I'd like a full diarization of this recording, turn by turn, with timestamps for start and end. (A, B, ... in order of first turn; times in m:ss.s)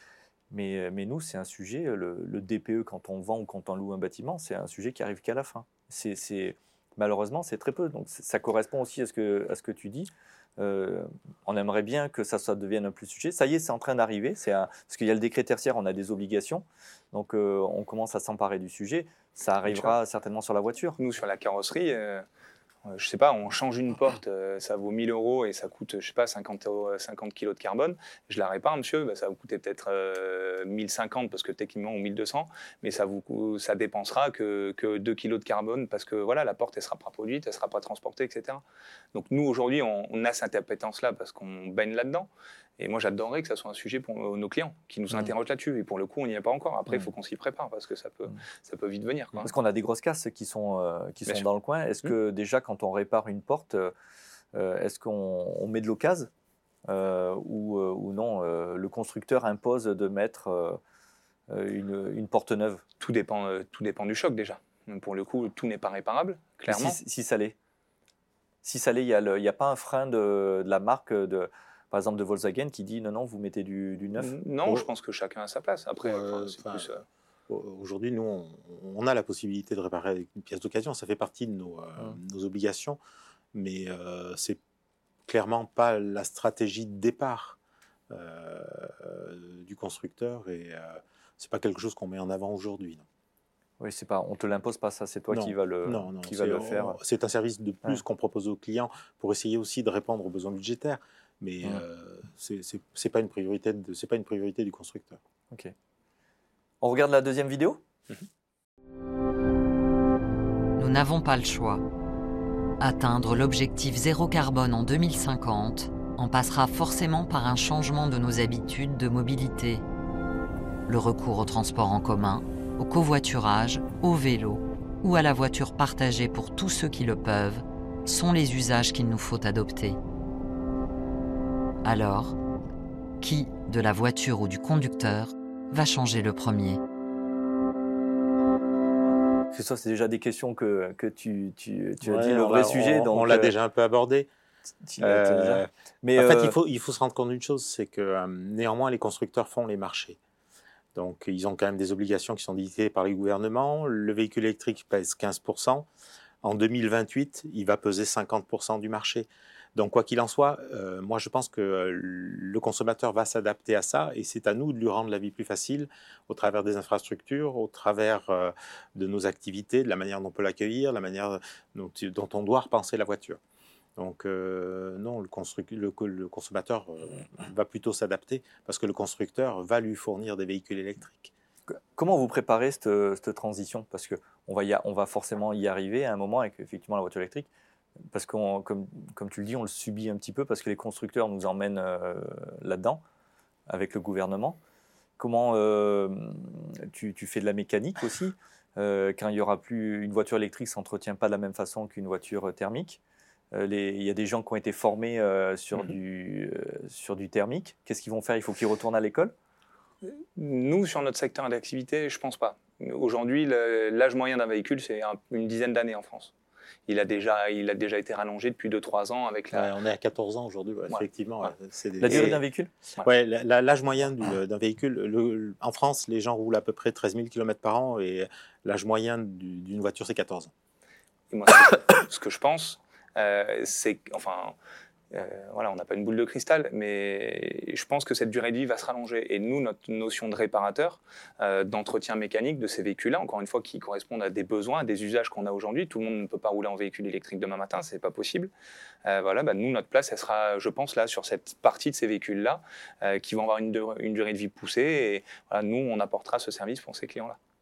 0:00.5-0:21.0 A
0:19.6-0:19.9 B
0:21.0-0:22.2 B
0:22.8-0:38.6 B
0:39.1-0:49.5 B
0:49.4-0:53.9 A
0:54.5-0:56.3 A
0:56.9-1:00.8 A
1:01.5-1:02.8 A
1:03.0-1:07.0 B
1:06.7-1:07.5 A
1:08.6-1:14.3 A
1:14.2-1:17.0 B
1:16.0-1:16.9 C
1:17.5-1:23.0 C
1:23.5-1:24.6 C
1:25.3-1:27.6 C
1:28.1-1:33.0 C
1:33.8-1:37.0 A
1:35.3-1:45.2 C
1:46.8-1:47.8 A
1:50.8-1:51.8 D
1:52.8-1:59.8 D
2:00.9-2:10.0 D
2:11.8-2:12.4 D
2:13.2-2:16.8 D
2:19.5-2:23.5 A
2:22.0-2:24.3 C
2:24.8-2:26.6 A
2:25.0-2:30.2 C
2:30.9-2:35.9 C
2:36.4-2:53.4 C
2:54.0-3:01.3 C
3:01.7-3:07.5 A
3:08.1-3:13.0 A
3:13.7-3:14.6 A
3:15.2-3:23.0 A
3:23.5-3:29.3 A
3:30.1-3:36.3 B
3:36.9-3:39.7 B
3:39.5-3:42.4 C
3:40.9-3:41.5 B
3:42.0-3:42.7 A
3:43.0-3:50.5 C
3:51.3-3:54.6 B
3:55.1-4:08.5 B
4:09.0-4:17.4 B